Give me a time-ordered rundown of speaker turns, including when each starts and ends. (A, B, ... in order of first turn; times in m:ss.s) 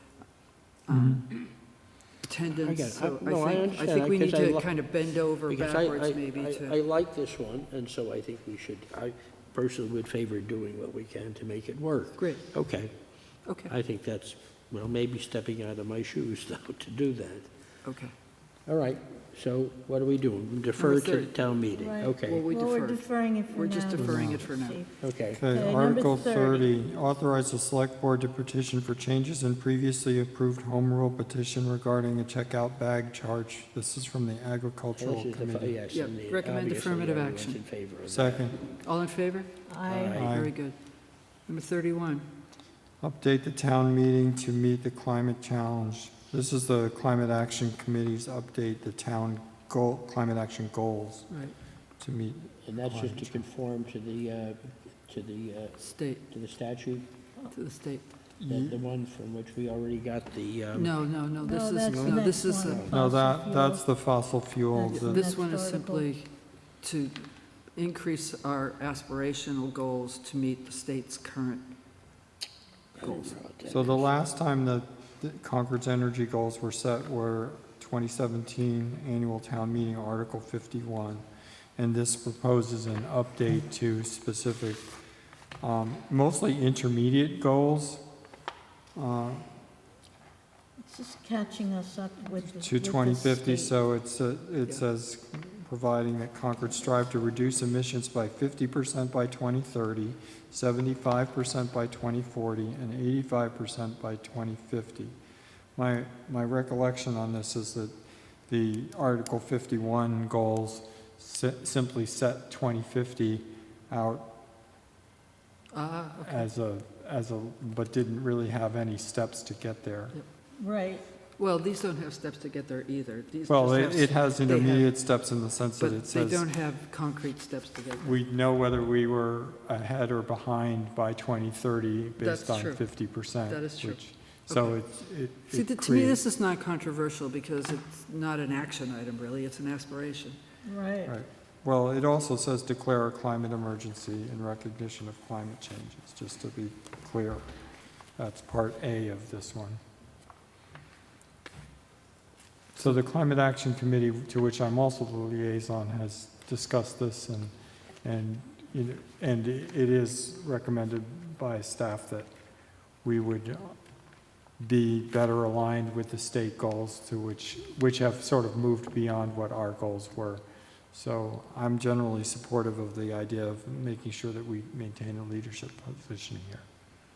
0:00.8-0:01.3 A
0:00.9-0:01.2 B
0:02.2-0:06.8 A
0:02.6-0:04.9 C
0:05.5-0:13.0 C
0:12.2-0:12.4 A
0:13.5-0:13.7 A
0:13.5-0:17.6 C
0:17.8-0:18.1 A
0:18.7-0:22.4 C
0:20.8-0:21.4 A
0:21.8-0:26.7 D
0:22.2-0:24.8 A
0:24.0-0:24.5 B
0:25.0-0:25.4 C
0:25.3-0:35.8 B
0:35.0-0:38.5 C
0:35.9-0:37.6 A
0:38.1-0:38.6 B
0:38.7-0:39.5 A
0:39.7-0:40.2 D
0:39.9-0:40.3 C
0:40.2-0:40.6 B
0:40.2-0:40.8 A
0:41.5-0:42.3 A
0:43.0-0:51.3 B
0:51.3-0:51.6 A
0:52.0-0:53.4 B
0:52.6-0:57.1 C
0:55.8-0:56.2 A
0:57.5-0:58.0 A
0:58.4-0:58.8 B
0:58.5-1:01.0 C
1:00.7-1:02.9 A
1:01.4-1:03.8 D
1:01.9-1:03.0 C
1:02.9-1:05.2 B
1:04.7-1:06.1 D
1:04.9-1:06.3 A
1:06.8-1:11.7 A
1:13.0-1:14.2 C
1:13.0-1:13.4 A
1:13.7-1:21.3 B
1:21.8-1:24.9 B
1:25.6-1:28.0 B
1:29.0-1:29.4 B
1:30.8-1:33.7 D
1:32.6-1:45.2 B
1:45.8-1:48.0 B
1:48.5-1:54.3 B
1:55.7-1:56.5 A
1:56.2-2:00.2 B
2:00.6-2:01.0 D
2:01.4-2:04.9 A
2:03.5-2:06.4 B
2:05.8-2:08.2 A
2:08.0-2:16.2 B
2:12.2-2:14.8 A
2:15.5-2:20.4 A
2:20.6-2:21.1 D
2:21.0-2:27.4 B
2:28.2-2:29.8 B
2:32.8-2:42.3 B
2:43.0-2:43.8 B
2:44.6-2:56.6 B